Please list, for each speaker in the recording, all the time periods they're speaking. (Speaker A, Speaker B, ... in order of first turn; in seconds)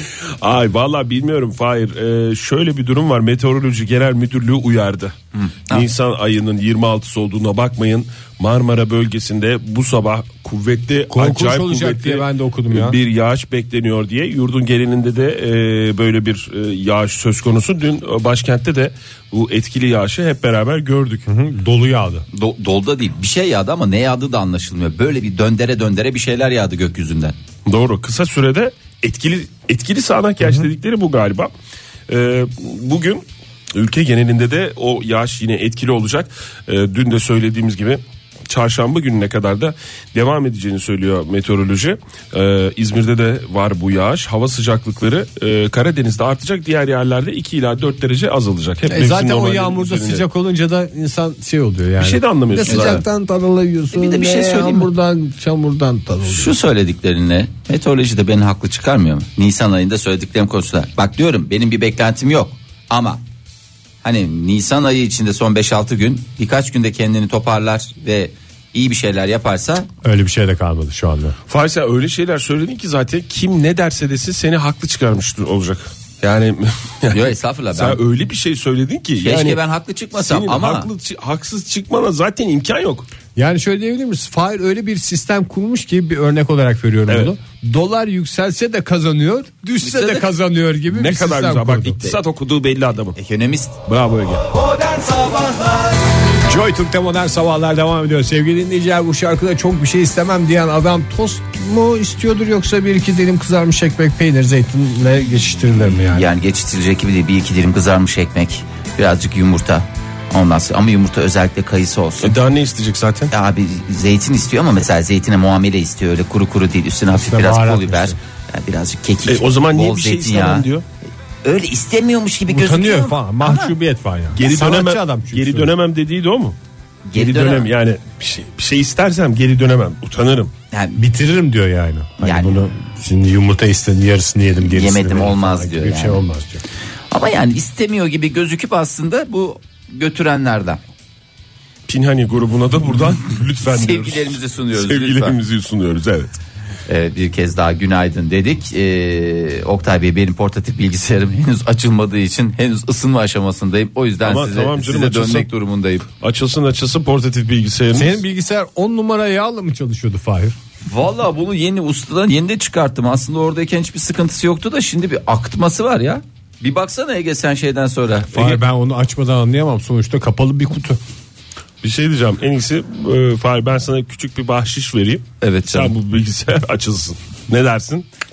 Speaker A: 0.4-5.2, 5.7-21.2, 27.6-31.5, 32.1-33.2, 33.7-50.2, 52.0-53.0, 71.5-79.6, 80.1-83.1, 87.1-87.3, 90.9-93.2, 93.8-94.5, 112.2-113.3, 119.3-120.8, 124.3-126.5, 127.2-130.5, 141.9-146.3, 154.2-155.5, 156.2-158.2, 171.8-178.0
Speaker B: 5.3-5.9, 22.3-27.3, 52.7-53.0, 53.9-54.9, 56.2-63.2, 64.0-69.9, 77.1-78.0, 79.2-80.9, 89.8-90.3, 93.2-93.8, 105.9-112.3, 113.3-120.7, 121.4-123.7, 127.1-127.7, 130.7-131.0, 132.2-132.6, 134.6-136.2, 137.1-140.8, 143.6-145.4, 146.9-156.1, 160.9-168.6, 175.4-175.9
Speaker C: 11.1-13.0, 21.2-22.2, 48.8-56.5, 70.0-71.3, 83.3-92.0, 96.5-106.2, 117.1-118.2, 122.5-125.7, 130.9-136.6, 157.9-160.6, 168.3-171.0